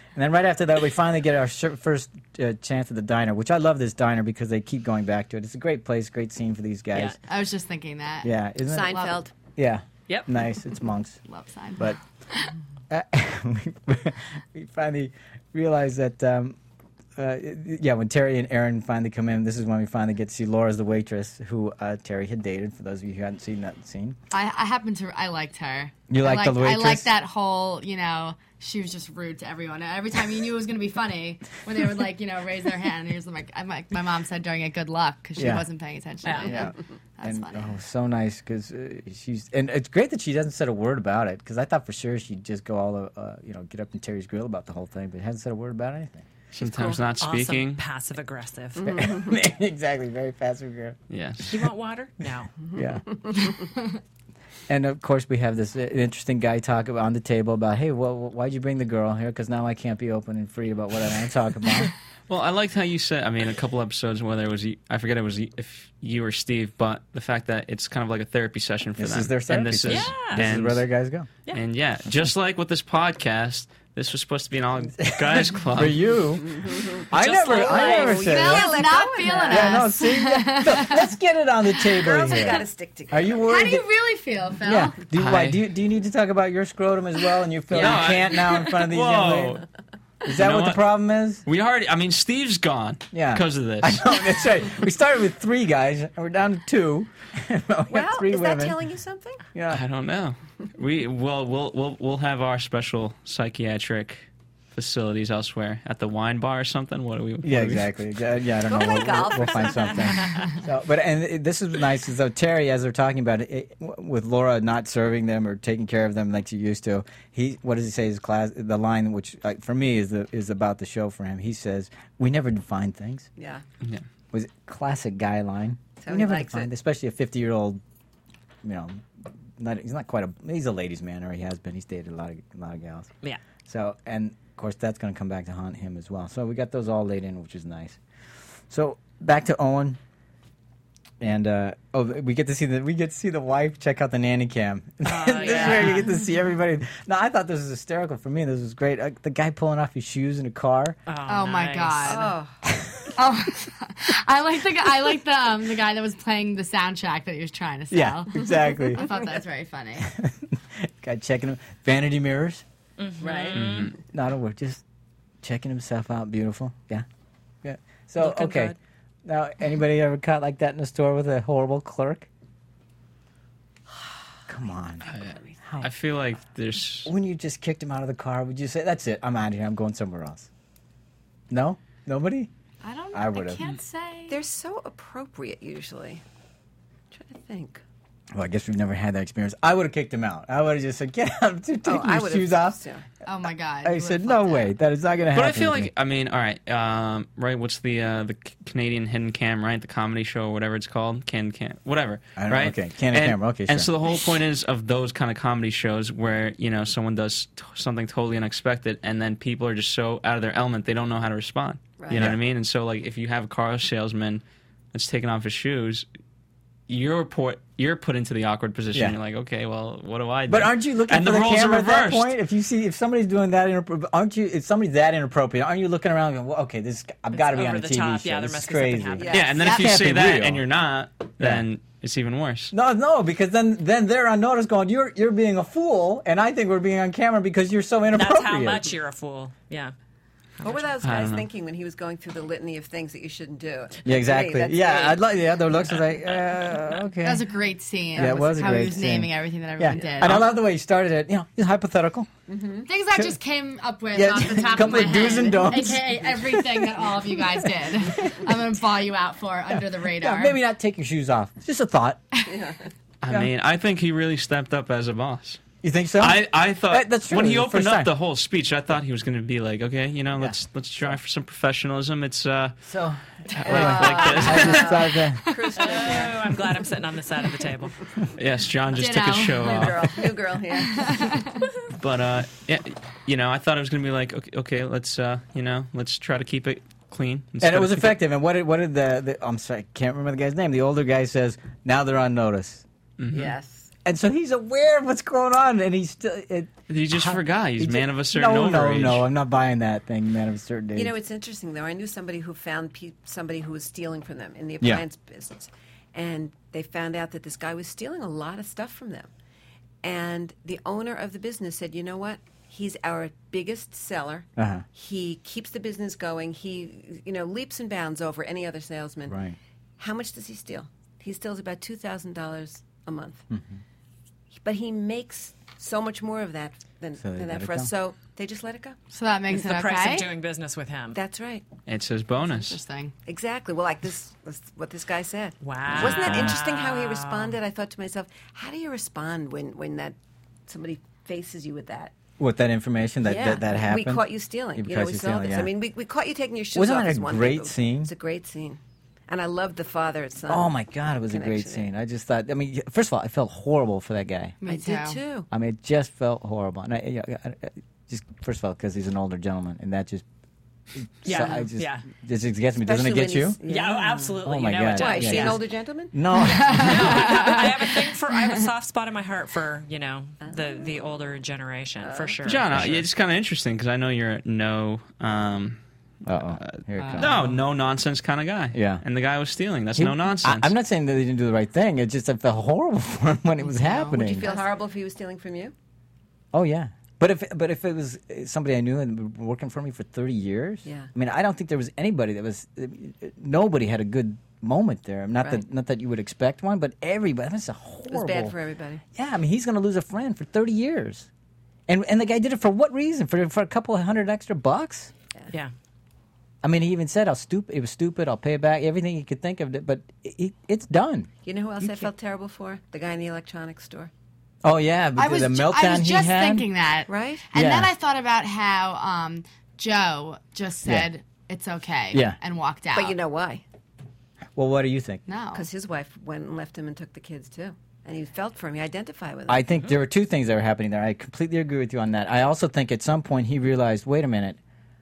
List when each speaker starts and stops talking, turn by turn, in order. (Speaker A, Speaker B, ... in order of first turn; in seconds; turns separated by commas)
Speaker A: 0.1-7.2, Speaker B: 7.3-8.3, Speaker A: 8.2-11.2, Speaker C: 8.7-9.3, Speaker B: 8.9-9.2, Speaker B: 11.3-12.5, Speaker A: 12.9-16.6, Speaker A: 17.2-24.2, Speaker B: 24.3-37.8, Speaker A: 26.1-27.1, Speaker A: 35.4-35.7, Speaker D: 36.2-36.6, Speaker A: 36.4-46.3, Speaker E: 46.5-47.8, Speaker D: 46.6-48.9, Speaker C: 48.8-49.4, Speaker A: 48.8-51.0, Speaker E: 51.1-51.5, Speaker D: 51.4-52.5, Speaker C: 52.7-53.5, Speaker A: 52.8-53.0, Speaker A: 54.7-61.9, Speaker E: 62.3-70.9, Speaker A: 69.0-71.3, Speaker D: 69.9-70.5, Speaker E: 71.5-76.0, Speaker A: 75.0-78.8, Speaker C: 76.5-79.9, Speaker D: 77.1-78.3, Speaker B: 78.2-81.1, Speaker A: 79.5-83.9, Speaker C: 82.0-83.4, Speaker B: 83.4-85.0, Speaker A: 84.6-89.6, Speaker E: 85.1-85.6, Speaker E: 87.7-89.6, Speaker A: 90.2-91.4, Speaker E: 90.3-90.8, Speaker E: 91.5-94.0, Speaker A: 93.1-98.8, Speaker C: 97.9-99.4, Speaker A: 99.5-99.8, Speaker E: 99.7-107.9, Speaker A: 107.4-123.3, Speaker C: 108.7-110.3, Speaker D: 109.7-110.5, Speaker C: 123.4-123.6, Speaker A: 124.3-127.8, Speaker C: 126.0-126.7, Speaker A: 128.6-129.1, Speaker A: 129.6-133.1, Speaker A: 133.7-138.0, Speaker A: 138.7-140.0, Speaker A: 141.2-151.0, Speaker D: 145.1-146.1, Speaker D: 151.1-152.2, Speaker B: 151.3-152.4, Speaker C: 152.1-152.6, Speaker A: 152.7-153.0, Speaker B: 153.2-160.1, Speaker A: 157.9-159.1, Speaker A: 160.0-162.6, Speaker D: 163.0-163.9, Speaker C: 163.2-163.8, Speaker E: 163.6-164.0, Speaker A: 164.1-164.8, Speaker A: 165.4-167.1, Speaker A: 167.6-172.3, Speaker D: 168.2-168.8, Speaker A: 174.5-175.1, Speaker E: 175.1-177.1, Speaker A: 175.6-175.9, Speaker A: 177.1-180.5, Speaker A: 181.5-182.5, Speaker B: 182.8-184.4, Speaker A: 183.1-183.6, Speaker C: 184.3-186.2, Speaker C: 187.1-187.8, Speaker A: 188.3-192.8, Speaker C: 191.8-193.1, Speaker B: 193.2-194.7, Speaker A: 193.8-195.9, Speaker E: 195.3-214.4, Speaker A: 202.4-203.9, Speaker C: 212.0-212.2, Speaker A: 212.1-212.4, Speaker E: 214.9-216.1, Speaker E: 216.9-222.3, Speaker A: 220.5-230.7, Speaker D: 227.3-229.4, Speaker C: 229.2-229.9, Speaker E: 229.3-232.7, Speaker A: 231.4-231.7, Speaker A: 232.7-238.9, Speaker D: 238.1-239.9, Speaker D: 240.6-240.9, Speaker C: 240.6-245.2, Speaker E: 241.0-241.5, Speaker A: 244.1-247.5, Speaker B: 247.2-250.5, Speaker A: 248.1-252.3, Speaker C: 250.0-250.4, Speaker C: 252.5-252.9, Speaker B: 252.9-260.6, Speaker A: 254.1-258.5, Speaker A: 259.7-262.2, Speaker C: 262.5-262.9, Speaker E: 263.2-265.6, Speaker A: 265.8-268.1, Speaker E: 266.2-272.8, Speaker A: 272.8-275.5, Speaker E: 273.6-275.0, Speaker C: 273.6-276.6, Speaker D: 275.8-278.0, Speaker E: 278.4-280.2, Speaker B: 278.9-279.9, Speaker C: 279.6-281.3, Speaker B: 280.9-281.6, Speaker E: 281.9-288.1, Speaker A: 287.6-292.9, Speaker E: 293.2-293.5, Speaker C: 293.3-293.9, Speaker A: 294.1-301.1, Speaker E: 296.9-299.3, Speaker C: 300.9-309.3, Speaker C: 310.0-319.4, Speaker A: 314.6-314.9, Speaker A: 319.3-319.6, Speaker C: 320.0-323.5, Speaker A: 323.5-323.8, Speaker C: 324.5-329.0, Speaker A: 327.2-327.9, Speaker B: 329.1-330.3, Speaker D: 329.5-331.2, Speaker C: 331.1-331.6, Speaker E: 331.9-332.8, Speaker B: 332.5-333.1, Speaker C: 333.3-340.2, Speaker D: 335.6-337.6, Speaker A: 335.9-336.6, Speaker C: 340.7-342.1, Speaker A: 342.4-345.7, Speaker C: 343.2-350.7, Speaker A: 346.7-348.1, Speaker A: 350.5-354.6, Speaker C: 351.3-351.9, Speaker B: 354.6-355.2, Speaker C: 354.7-355.5, Speaker A: 355.5-360.2, Speaker A: 361.0-363.6, Speaker D: 361.2-362.1, Speaker C: 362.8-364.4, Speaker D: 363.7-365.6, Speaker A: 364.4-367.6, Speaker C: 364.9-366.2, Speaker B: 366.4-367.6, Speaker D: 366.7-372.8, Speaker C: 370.4-370.8, Speaker C: 372.0-372.5, Speaker E: 372.4-375.8, Speaker A: 372.7-373.1, Speaker A: 376.3-377.5, Speaker E: 376.6-380.7, Speaker B: 377.0-377.5, Speaker A: 378.7-379.0, Speaker A: 380.0-384.5, Speaker B: 383.6-384.6, Speaker C: 384.1-385.7, Speaker A: 386.5-398.6, Speaker C: 390.9-391.1, Speaker C: 398.1-399.0, Speaker A: 399.1-401.3, Speaker A: 401.9-405.1, Speaker A: 406.6-412.1, Speaker C: 411.4-414.1, Speaker A: 414.6-416.7, Speaker B: 415.2-423.2, Speaker C: 417.1-417.5, Speaker A: 417.5-417.9, Speaker A: 422.1-422.4, Speaker C: 422.9-423.6, Speaker A: 424.6-425.2, Speaker B: 425.3-425.7, Speaker C: 425.5-429.7, Speaker A: 429.5-434.6